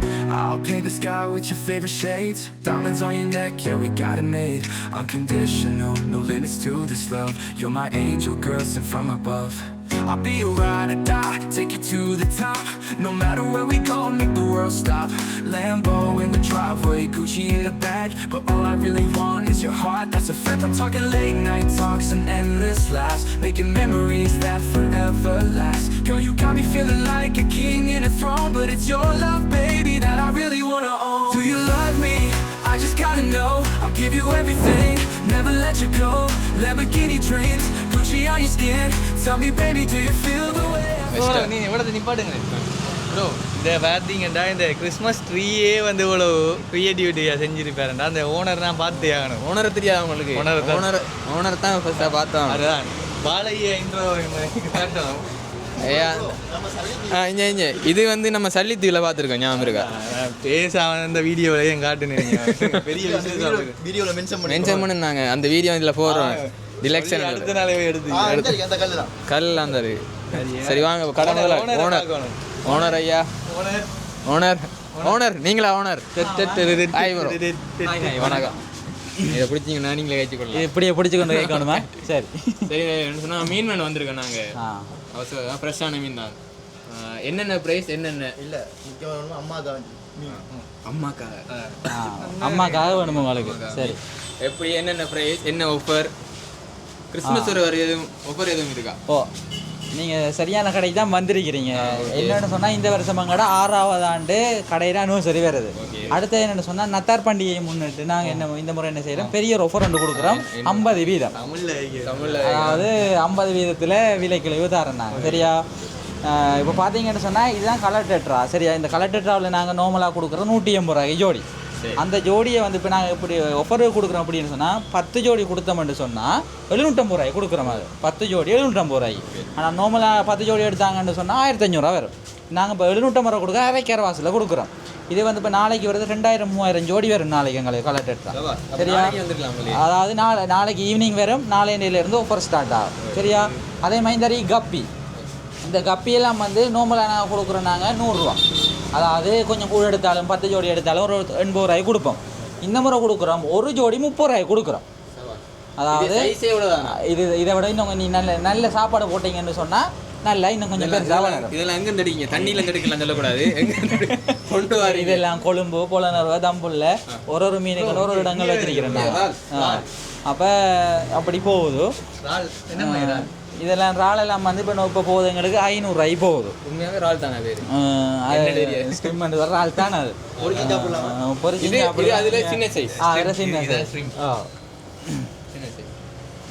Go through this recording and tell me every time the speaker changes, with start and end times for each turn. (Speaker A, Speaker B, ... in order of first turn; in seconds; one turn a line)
Speaker A: 0.3-41.2
Speaker B: 41.1-41.5
Speaker C: 41.1-49.5
Speaker B: 43.1-43.3
Speaker B: 48.9-52.6
Speaker C: 50.3-51.0
Speaker C: 52.0-55.3
Speaker B: 55.8-56.4
Speaker D: 55.8-57.2
Speaker B: 57.1-59.9
Speaker C: 59.5-63.8
Speaker B: 62.3-62.8
Speaker D: 62.9-64.9
Speaker B: 64.5-67.5
Speaker C: 66.0-68.7
Speaker D: 68.1-69.1
Speaker B: 69.3-72.1
Speaker C: 70.3-73.0
Speaker B: 72.6-73.3
Speaker C: 73.5-73.9
Speaker B: 74.2-78.6
Speaker C: 76.2-78.5
Speaker E: 76.2-76.8
Speaker E: 78.2-78.5
Speaker B: 79.3-80.7
Speaker E: 80.5-82.7
Speaker B: 81.2-81.9
Speaker B: 82.7-84.4
Speaker E: 84.6-84.9
Speaker B: 85.1-88.4
Speaker D: 88.4-90.4
Speaker B: 90.3-96.1
Speaker C: 91.5-92.8
Speaker E: 91.9-94.0
Speaker B: 97.1-99.0
Speaker E: 97.2-97.6
Speaker E: 99.9-111.3
Speaker B: 101.8-102.4
Speaker B: 105.8-106.2
Speaker B: 110.1-111.3
Speaker C: 111.3-112.7
Speaker B: 112.0-112.9
Speaker E: 112.4-115.7
Speaker C: 115.1-115.5
Speaker E: 116.3-121.5
Speaker B: 121.8-122.0
Speaker E: 122.0-139.2
Speaker B: 129.2-129.5
Speaker B: 138.3-139.8
Speaker E: 139.7-144.9
Speaker B: 143.0-143.6
Speaker E: 145.6-148.4
Speaker E: 148.9-154.8
Speaker B: 155.1-157.0
Speaker E: 155.8-161.5
Speaker B: 160.8-165.3
Speaker E: 162.4-162.9
Speaker E: 164.8-171.9
Speaker C: 167.7-169.9
Speaker B: 168.9-169.8
Speaker C: 172.2-173.3
Speaker E: 172.7-176.6
Speaker B: 176.6-177.7
Speaker E: 177.7-184.5
Speaker B: 178.3-179.1
Speaker B: 180.4-180.8
Speaker D: 180.4-181.2
Speaker B: 181.6-184.1
Speaker C: 183.0-184.1
Speaker B: 185.5-185.9